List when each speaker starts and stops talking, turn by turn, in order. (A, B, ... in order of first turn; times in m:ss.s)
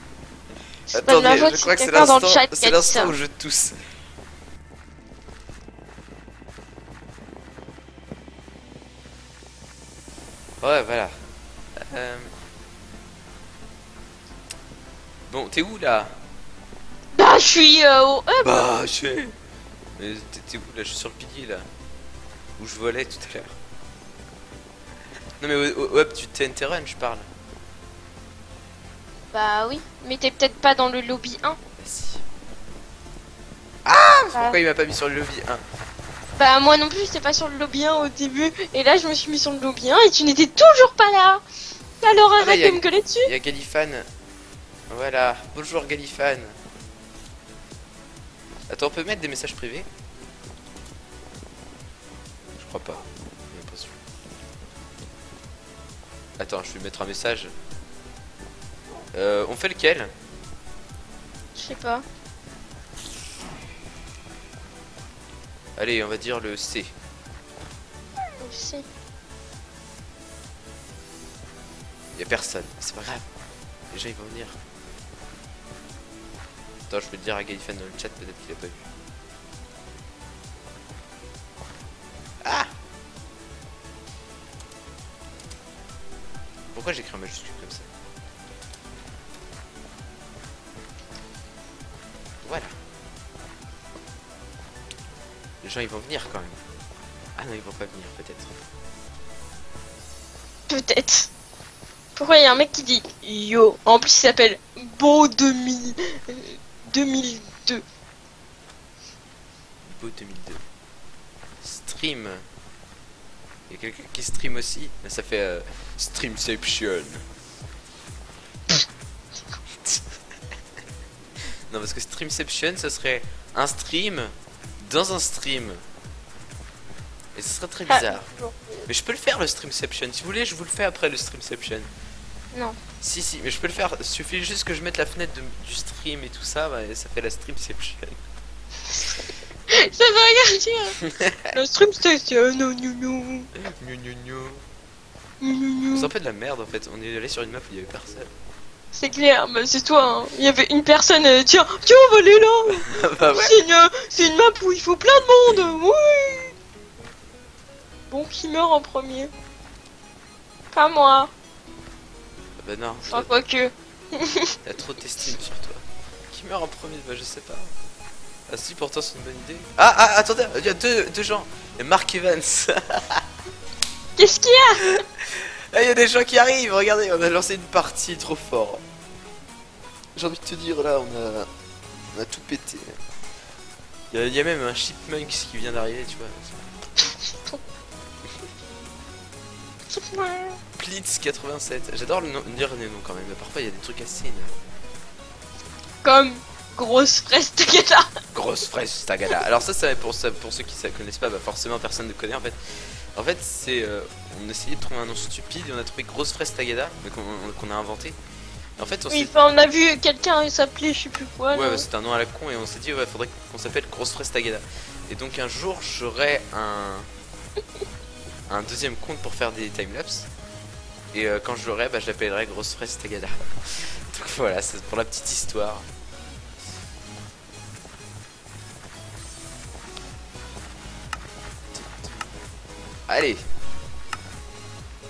0:00.9-0:03.1 A
0:00.9-0:03.8 B
0:10.6-0:11.1 B
0:11.8-0:12.3 B
0:15.3-0:16.2 B
0:17.1-0:18.6 A
0:18.4-0:19.3 B
0:20.0-0:21.7 B
0:22.6-0:23.6 B
0:25.4-0:27.3 B
0:29.3-0:31.6 A
0:31.8-0:32.2 B
0:33.8-0:35.6 B
0:36.4-0:41.4 A
0:42.0-0:43.3 A
0:42.4-0:44.1 B
0:44.9-0:46.6 B
0:48.7-0:49.9 B
0:52.6-0:54.0 B
0:56.4-0:57.5 B
0:59.1-1:00.1 B
1:01.5-1:02.0 A
1:05.8-1:06.9 B
1:08.4-1:08.8 A
1:12.1-1:13.2 B
1:13.9-1:14.6 B
1:16.9-1:18.9 B
1:22.4-1:22.7 B
1:26.7-1:27.9 B
1:32.4-1:32.7 B
1:35.6-1:36.6 B
1:37.4-1:38.6 B
1:40.7-1:41.3 A
1:42.2-1:47.8 A
1:49.8-1:50.6 B
1:51.6-1:52.4 B
1:53.7-1:57.2 B
2:01.7-2:05.8 B
2:07.3-2:08.3 B
2:07.9-2:08.8 A
2:08.9-2:11.9 B
2:12.5-2:12.8 A
2:13.0-2:18.2 B
2:19.7-2:21.0 A
2:21.0-2:21.5 B
2:21.5-2:23.5 A
2:23.6-2:24.6 B
2:25.4-2:26.1 A
2:25.9-2:28.3 B
2:28.9-2:36.5 A
2:32.7-2:33.6 B
2:38.1-2:39.3 A
2:40.7-2:41.3 A
2:42.6-2:43.3 B
2:43.1-2:44.6 A
2:44.6-2:47.7 B
2:48.5-2:53.2 B
2:54.2-2:54.9 A
2:54.8-2:58.8 B
3:00.1-3:01.5 B
3:02.1-3:03.0 B
3:04.1-3:06.7 B
3:07.0-3:07.6 A
3:09.9-3:10.6 A
3:10.8-3:14.5 B
3:16.0-3:18.1 A
3:18.3-3:28.2 B
3:28.8-3:29.3 B
3:29.1-3:31.8 A
3:31.5-3:37.1 B
3:38.5-3:40.3 B
3:41.1-3:45.8 B
3:51.7-3:52.2 B
3:53.1-3:53.4 B